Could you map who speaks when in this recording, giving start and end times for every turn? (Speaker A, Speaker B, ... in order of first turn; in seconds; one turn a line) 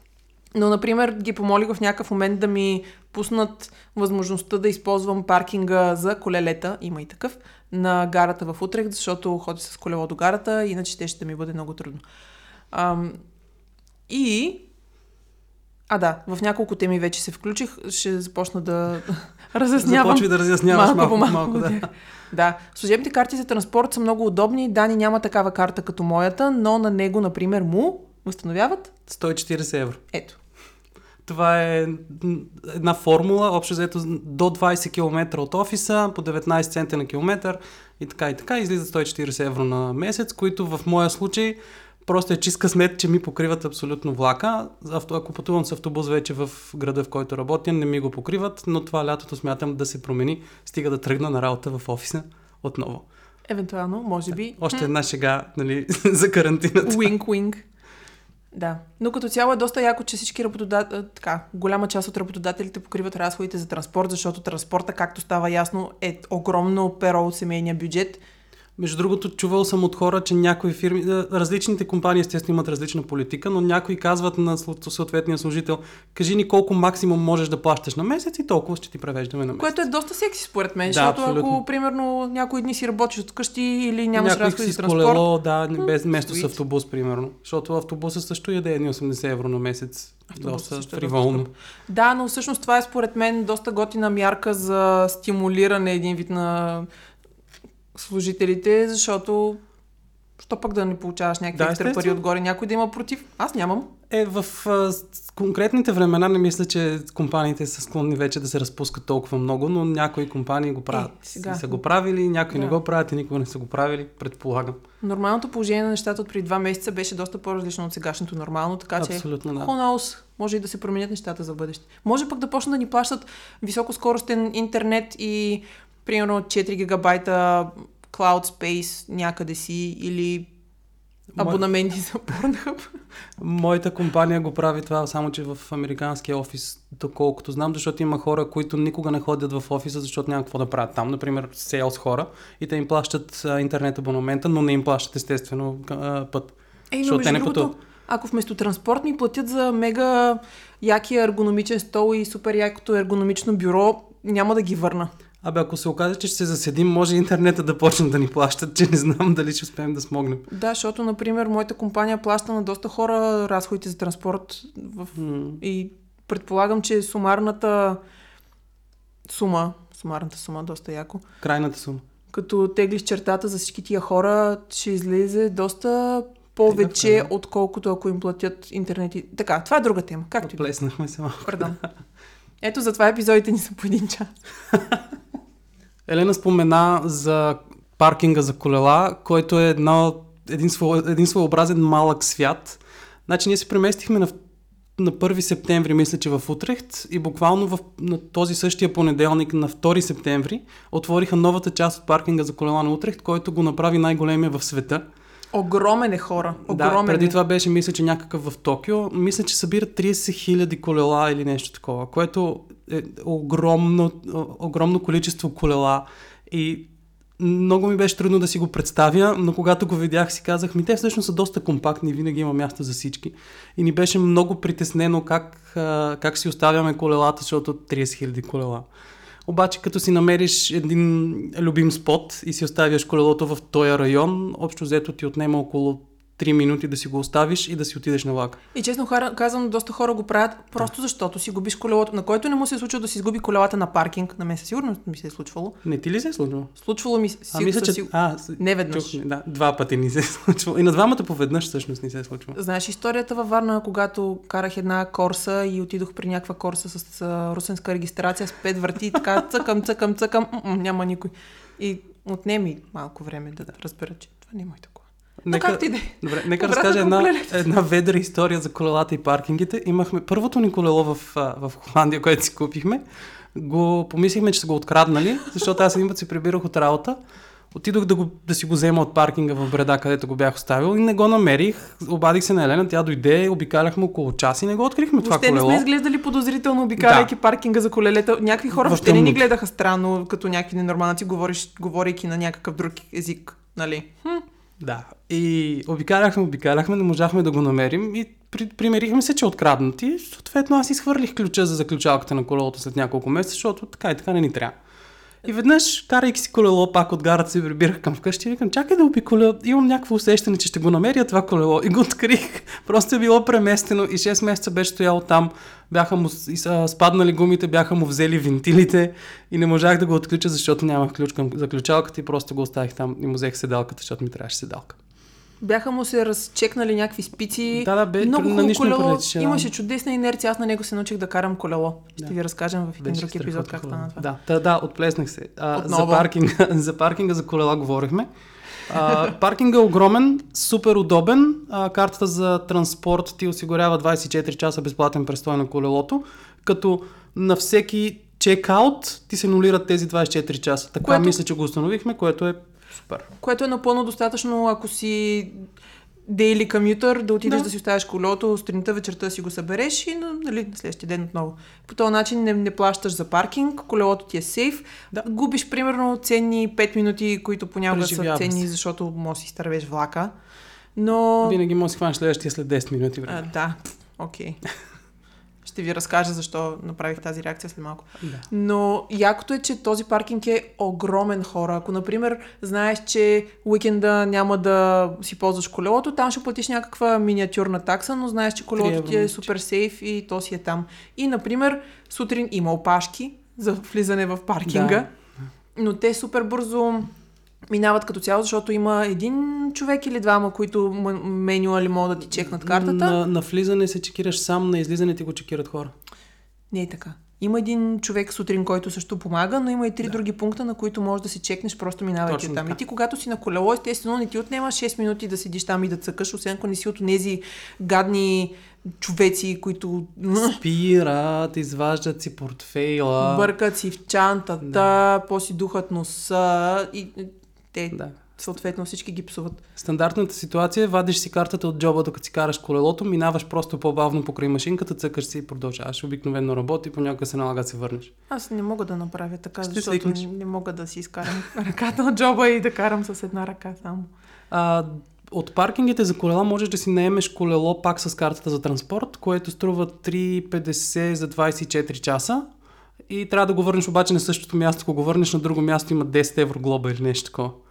Speaker A: 0.5-12.0
Speaker A: 12.7-13.2
Speaker A: 14.1-14.7
Speaker A: 15.9-28.9
Speaker B: 19.8-21.9
Speaker B: 29.1-30.0
Speaker A: 30.1-30.4
Speaker B: 31.2-53.0
Speaker A: 53.5-54.9
Speaker B: 54.3-57.1
Speaker A: 56.8-57.6
Speaker A: 58.5-68.2
Speaker B: 68.8-79.8
Speaker A: 79.6-85.2
Speaker B: 80.9-81.6
Speaker B: 84.1-91.5
Speaker A: 85.8-86.5
Speaker A: 90.3-96.9
Speaker A: 97.9-99.6
Speaker A: 100.4-103.9
Speaker B: 101.5-102.2
Speaker B: 104.1-114.8
Speaker A: 110.9-111.8
Speaker A: 112.5-112.8
Speaker A: 115.0-130.5
Speaker B: 119.0-119.7
Speaker B: 131.3-131.6
Speaker A: 131.4-132.9
Speaker B: 133.4-147.7
Speaker A: 146.9-155.1
Speaker B: 155.4-160.4
Speaker A: 160.5-168.0
Speaker B: 165.1-165.6
Speaker A: 169.2-171.2
Speaker B: 171.4-172.0
Speaker A: 172.3-180.7
Speaker B: 176.7-177.3
Speaker B: 180.4-181.8
Speaker A: 181.4-181.8
Speaker A: 182.6-184.3
Speaker B: 184.7-185.0
Speaker B: 186.1-194.3
Speaker B: 195.0-205.0
Speaker A: 205.5-207.4
Speaker B: 206.7-228.9
Speaker B: 229.5-238.6
Speaker A: 238.7-245.8
Speaker B: 245.8-246.7
Speaker A: 246.8-249.2
Speaker B: 247.5-252.6
Speaker A: 252.5-267.6
Speaker B: 265.4-273.0
Speaker B: 273.5-277.2
Speaker B: 277.7-285.9
Speaker A: 285.2-294.4
Speaker B: 287.0-287.3
Speaker B: 288.7-289.4
Speaker B: 294.8-304.7
Speaker B: 305.4-324.9
Speaker A: 325.6-334.2
Speaker B: 327.7-329.7
Speaker B: 333.0-338.3
Speaker A: 335.7-336.3
Speaker B: 338.9-353.3
Speaker A: 351.0-351.4
Speaker A: 353.4-355.6
Speaker A: 356.3-370.3
Speaker B: 367.9-368.6
Speaker A: 370.9-371.6
Speaker B: 371.4-373.4
Speaker A: 373.2-374.6
Speaker A: 375.6-395.1
Speaker B: 388.8-389.5
Speaker B: 394.6-395.0
Speaker A: 395.7-397.1
Speaker A: 397.7-403.2
Speaker B: 402.4-405.9
Speaker A: 406.7-420.6
Speaker B: 412.2-412.8
Speaker B: 420.6-423.5
Speaker A: 423.2-429.6
Speaker B: 424.6-424.9
Speaker B: 429.8-438.1
Speaker A: 438.3-444.1
Speaker B: 439.6-440.2
Speaker B: 444.5-452.4
Speaker B: 453.1-457.6